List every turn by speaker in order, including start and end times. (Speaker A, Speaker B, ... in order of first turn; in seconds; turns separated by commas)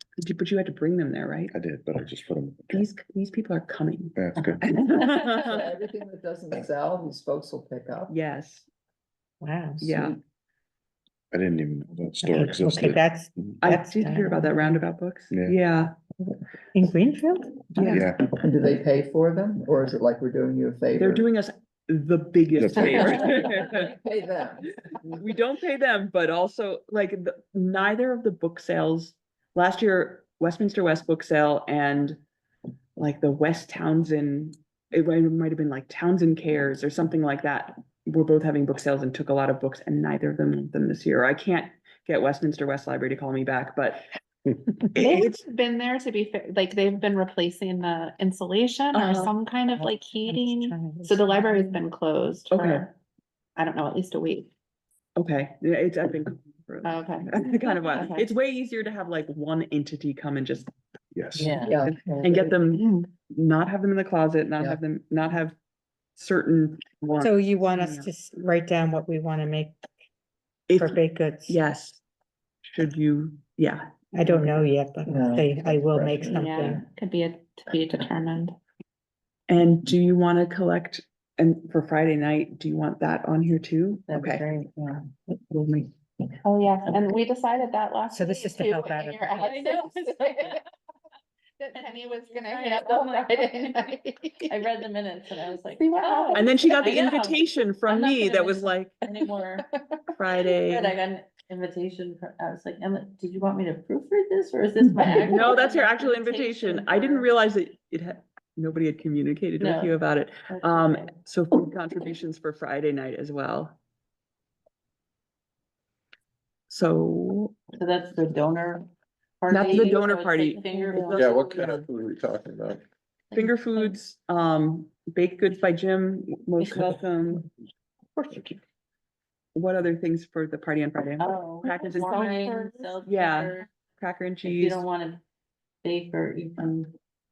Speaker A: 0.2-1.5, Speaker B: 1.5-2.9, Speaker A: 2.7-5.6, Speaker B: 4.1-4.6, Speaker C: 5.4-8.1, Speaker A: 8.1-8.7, Speaker D: 9.4-9.9, Speaker A: 9.8-10.2, Speaker B: 11.3-13.5, Speaker D: 12.2-14.8, Speaker A: 13.6-15.9, Speaker B: 15.3-15.6, Speaker D: 16.7-18.0, Speaker A: 17.8-18.1, Speaker B: 17.9-18.3, Speaker C: 18.3-21.2, Speaker A: 21.0-24.0, Speaker B: 22.5-23.4, Speaker C: 23.0-24.7, Speaker A: 24.9-32.2, Speaker A: 33.0-44.0, Speaker A: 44.9-45.4, Speaker E: 45.0-52.9, Speaker A: 48.9-49.3, Speaker D: 49.8-51.8, Speaker A: 52.5-52.9, Speaker E: 53.6-54.5, Speaker A: 55.2-60.7, Speaker E: 56.8-58.2, Speaker B: 61.1-61.6, Speaker F: 61.4-61.8, Speaker C: 61.4-62.6, Speaker A: 61.4-65.5, Speaker E: 62.7-63.1, Speaker A: 66.2-68.1, Speaker D: 67.2-69.8, Speaker A: 70.7-72.0, Speaker D: 70.8-71.6, Speaker A: 72.6-74.4, Speaker D: 74.1-76.8, Speaker C: 75.1-76.8, Speaker E: 76.4-78.5, Speaker A: 79.5-84.5, Speaker F: 84.1-85.0, Speaker A: 85.3-85.9, Speaker E: 86.4-90.6, Speaker D: 88.1-89.4, Speaker F: 89.4-90.6, Speaker E: 91.6-94.5, Speaker F: 91.7-99.7, Speaker E: 95.7-96.5, Speaker A: 96.3-98.9, Speaker A: 100.2-100.9, Speaker F: 100.5-107.3, Speaker A: 105.2-113.8, Speaker F: 109.6-110.0, Speaker F: 110.5-111.1, Speaker A: 116.7-117.5, Speaker F: 117.8-118.9, Speaker F: 119.4-121.5, Speaker A: 119.5-121.9, Speaker B: 121.2-122.8, Speaker F: 123.3-123.9, Speaker A: 123.3-127.4, Speaker A: 129.5-132.3, Speaker F: 131.2-133.7, Speaker E: 132.0-132.9, Speaker A: 133.0-134.8, Speaker F: 134.4-135.2, Speaker F: 135.8-136.9